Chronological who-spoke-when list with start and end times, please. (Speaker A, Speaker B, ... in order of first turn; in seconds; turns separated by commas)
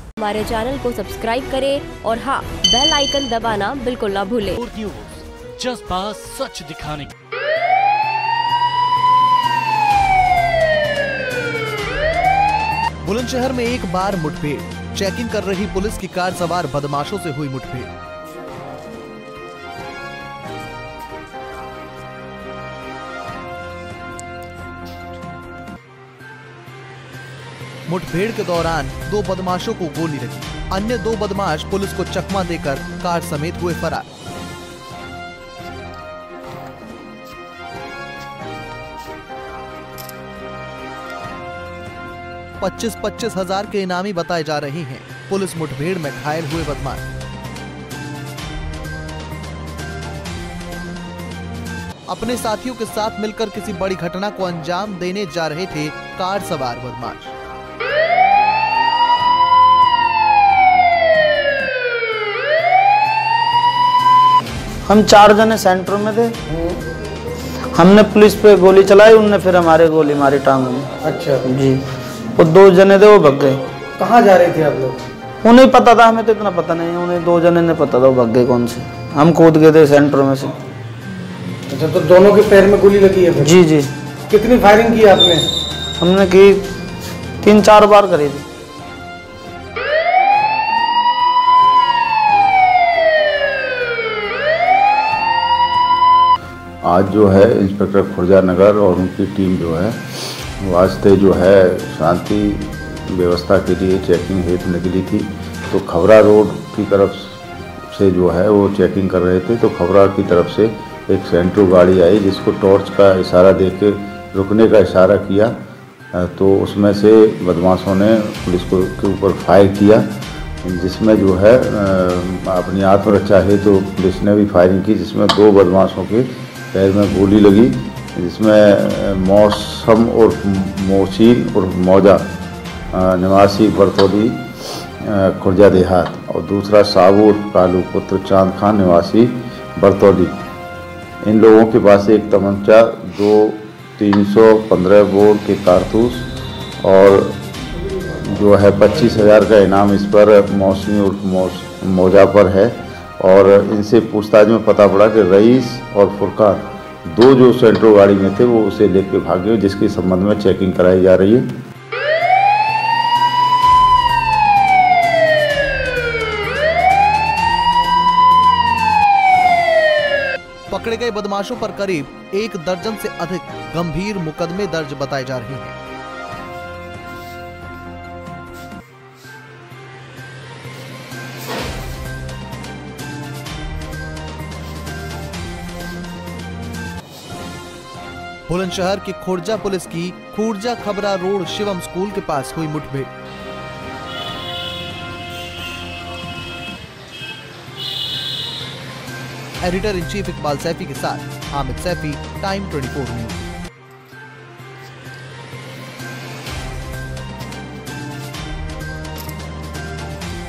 Speaker A: 0.2-4.6, Speaker B: 4.5-7.1, Speaker C: 13.0-17.9, Speaker C: 27.9-34.1, Speaker C: 42.6-47.1, Speaker C: 52.1-57.3, Speaker D: 64.8-66.3, Speaker E: 66.5-66.8, Speaker D: 67.5-70.9, Speaker E: 71.0-71.5, Speaker D: 71.4-73.6, Speaker E: 74.0-75.0, Speaker D: 75.4-80.5, Speaker E: 81.7-83.5, Speaker D: 83.4-83.9, Speaker E: 84.3-85.5, Speaker D: 86.0-86.7, Speaker D: 87.4-88.4, Speaker F: 96.8-107.4, Speaker F: 107.9-115.5, Speaker F: 116.1-120.1, Speaker F: 120.6-132.2, Speaker F: 132.9-140.4, Speaker F: 141.2-146.3, Speaker F: 146.8-147.4, Speaker F: 148.1-161.5, Speaker C: 170.7-175.7, Speaker C: 188.5-193.1, Speaker C: 199.6-203.4